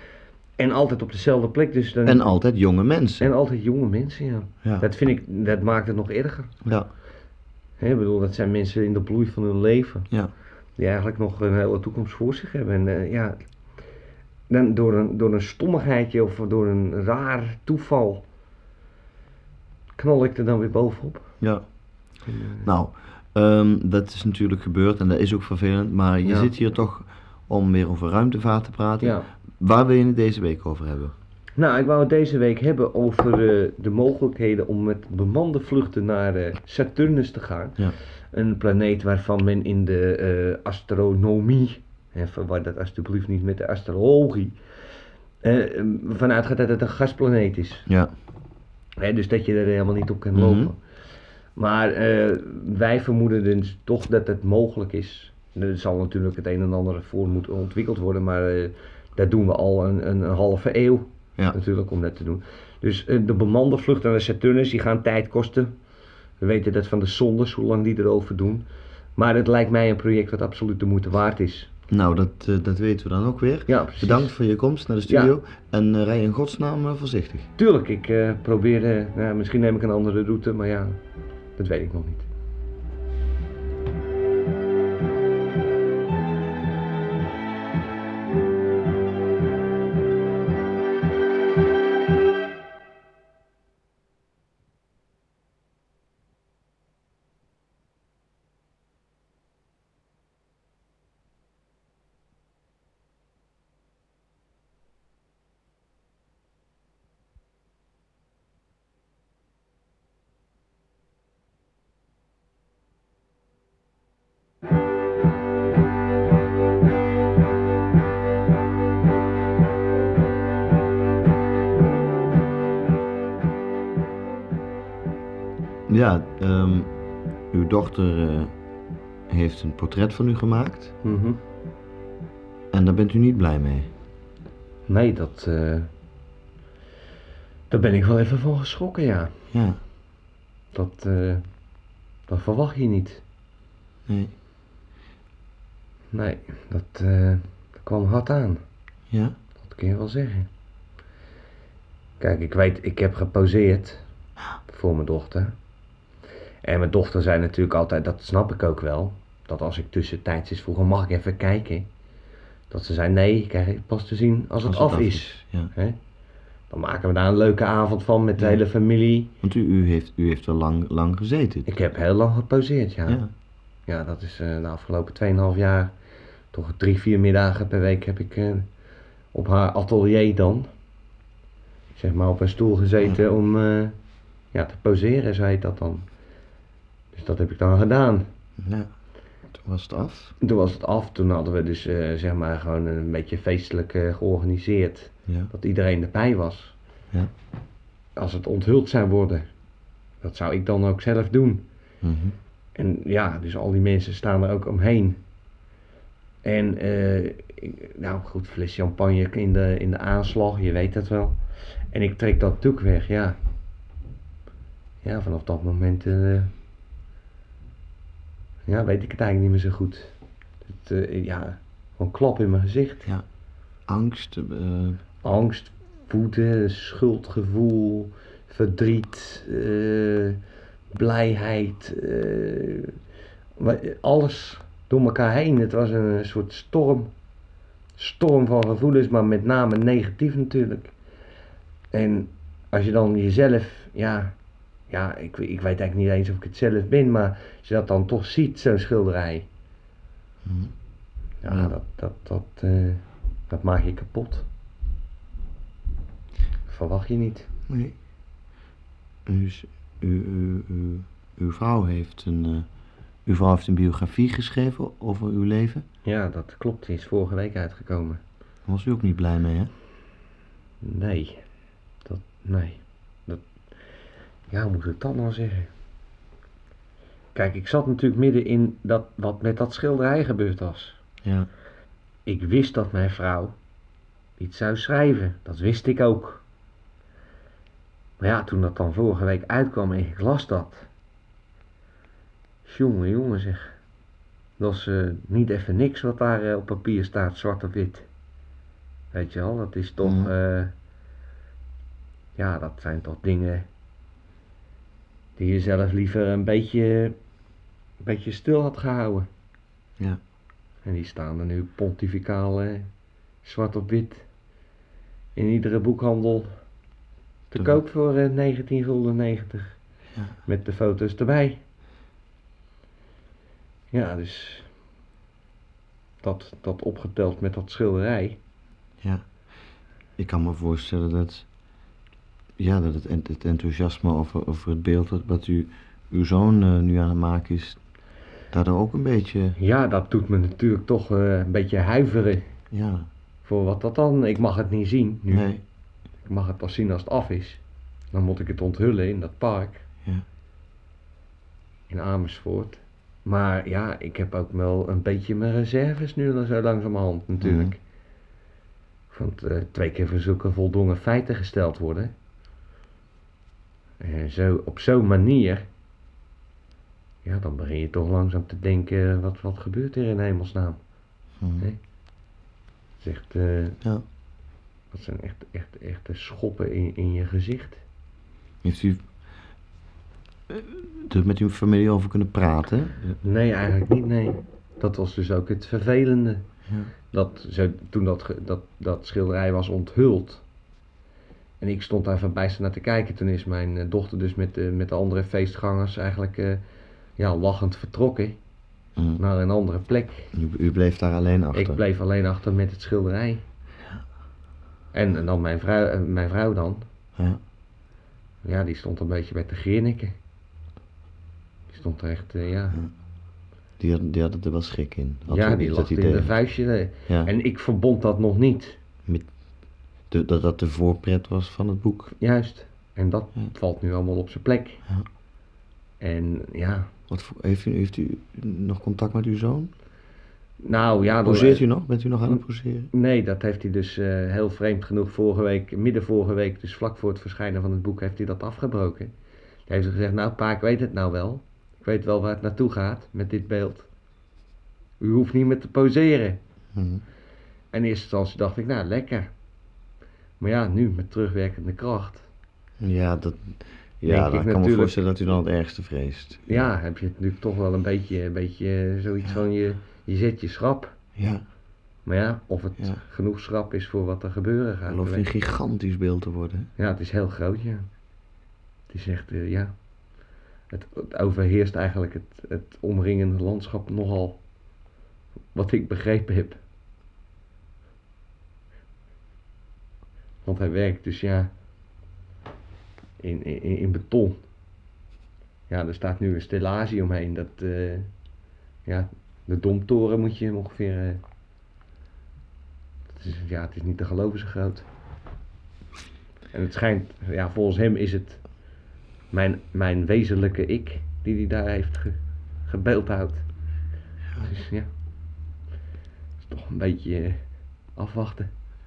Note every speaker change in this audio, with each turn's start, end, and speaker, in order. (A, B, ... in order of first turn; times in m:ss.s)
0:00.6-0:02.3 A
0:02.1-0:03.3 B
0:03.2-0:06.5 A
0:06.6-0:06.9 B
0:07.8-0:10.1 A
0:10.8-0:13.4 A
0:14.5-0:18.2 A
0:20.0-0:21.3 A
0:21.4-0:21.6 B
0:22.2-0:22.7 A
0:22.6-0:31.1 B
0:26.2-0:26.5 A
0:29.0-0:29.3 A
0:31.6-0:37.8 A
0:38.3-0:44.6 A
0:45.4-0:47.9 A
0:49.0-0:50.8 A
0:50.4-0:50.7 B
0:51.6-1:05.7 A
1:06.4-1:11.7 A
1:11.9-1:17.5 B
1:13.7-1:14.4 A
1:15.0-1:15.3 A
1:17.6-1:21.0 A
1:21.6-1:22.3 A
2:05.9-2:06.9 B
2:07.5-2:08.5 B
2:09.3-2:10.9 B
2:11.0-2:11.4 A
2:12.7-2:13.9 B
2:14.9-2:15.9 A
2:17.7-2:19.3 A
2:19.5-2:19.8 B
2:20.7-2:21.4 A
2:22.3-2:23.2 A
2:26.1-2:28.6 A
2:29.1-2:29.4 B
2:29.6-2:30.5 A
2:32.2-2:34.0 A
2:34.7-2:35.6 A
2:36.6-2:41.9 A
2:42.7-2:46.0 A
2:44.6-2:45.7 B
2:46.7-2:49.3 A
2:49.4-2:51.7 B
2:51.7-2:53.2 A
2:53.9-2:55.9 A
2:56.5-2:58.7 A
2:59.3-3:00.7 A
3:02.0-3:04.0 A
3:04.5-3:06.1 A
3:07.1-3:08.3 A
3:08.6-3:08.9 B
3:09.5-3:10.4 B
3:10.4-3:16.8 A
3:18.2-3:19.5 A
3:20.2-3:21.6 A
3:22.0-3:22.4 B
3:22.8-3:25.2 A
3:26.4-3:31.4 A
3:31.9-3:33.4 A
3:35.0-3:36.5 A
3:38.7-3:40.1 A
3:40.6-3:43.1 A
3:43.9-3:45.0 B
3:45.2-3:50.4 A
3:50.9-3:53.0 A
3:53.6-3:57.1 A
3:58.0-4:00.9 A
4:01.9-4:04.4 A
4:04.9-4:09.5 A
4:10.4-4:10.7 B
4:11.4-4:14.5 A
4:11.5-4:11.7 B
4:16.7-4:17.5 A
4:17.7-4:18.0 B
4:19.3-4:22.7 B
4:23.3-4:25.8 B
4:26.0-4:28.2 A
4:28.7-4:29.7 B
4:30.8-4:31.4 A
4:32.0-4:33.4 A
4:34.5-4:35.7 A
4:37.4-4:41.0 A
4:42.3-4:43.6 A
4:44.4-4:46.4 A
4:48.2-4:50.9 A
4:52.6-4:53.8 A
4:54.6-4:58.1 A
4:59.1-5:00.7 A
5:00.0-5:00.3 B
5:02.4-5:03.7 A
5:05.4-5:07.2 A
5:08.0-5:09.3 A
5:10.8-5:12.9 A
5:13.4-5:14.3 A
5:15.4-5:16.5 A
5:17.5-5:19.8 A
5:20.5-5:21.6 A
5:23.9-5:24.7 A
5:26.2-5:28.4 A
5:30.2-5:31.5 B
5:32.6-5:37.8 B
5:38.5-5:39.6 B
5:39.6-5:42.4 A
5:42.7-5:43.1 B
5:43.4-5:45.5 A
5:45.3-5:45.6 B
5:46.2-5:49.8 A
5:51.9-5:57.8 A
5:57.4-5:57.7 B
5:59.1-6:02.1 A
6:04.0-6:05.7 A
6:07.2-6:10.8 A
6:11.4-6:11.7 B
6:13.0-6:13.8 A
6:14.9-6:17.8 A
6:18.6-6:19.0 B
6:20.5-6:23.2 B
6:23.2-6:26.5 A
6:27.1-6:30.4 A
6:31.6-6:36.6 A
6:37.2-6:38.4 A
6:39.0-6:39.2 B
6:39.2-6:40.3 A
6:40.3-6:41.8 B
6:41.5-6:43.4 A
6:44.9-6:46.8 A
6:48.4-6:50.2 A
6:51.7-6:52.8 A
6:53.8-6:56.4 B
6:55.3-6:58.8 A
6:57.1-6:57.3 B
6:59.1-6:59.3 B
7:00.1-7:02.1 B
7:02.2-7:04.8 A
7:06.0-7:06.9 A
7:07.1-7:09.7 B
7:10.6-7:11.7 A
7:11.2-7:12.9 B
7:12.9-7:19.1 A
7:19.7-7:23.9 A
7:25.0-7:26.4 A
7:26.8-7:27.0 B
7:27.7-7:29.3 A
7:30.4-7:32.3 A
7:32.8-7:36.7 B
7:34.0-7:35.0 A
7:36.5-7:41.0 A
7:41.2-7:41.4 B
7:42.0-7:45.3 A
7:44.9-7:46.7 B
7:46.8-7:47.9 A
7:48.9-7:49.7 A
7:50.7-7:54.4 A
7:55.5-7:56.6 A
8:00.4-8:01.5 A
8:03.2-8:04.4 A
8:05.7-8:08.1 A
8:08.8-8:11.2 A
8:13.1-8:14.9 A
8:16.5-8:18.5 A
8:19.3-8:23.5 A
8:24.4-8:24.9 A
8:26.4-8:27.4 A
8:28.0-8:28.5 A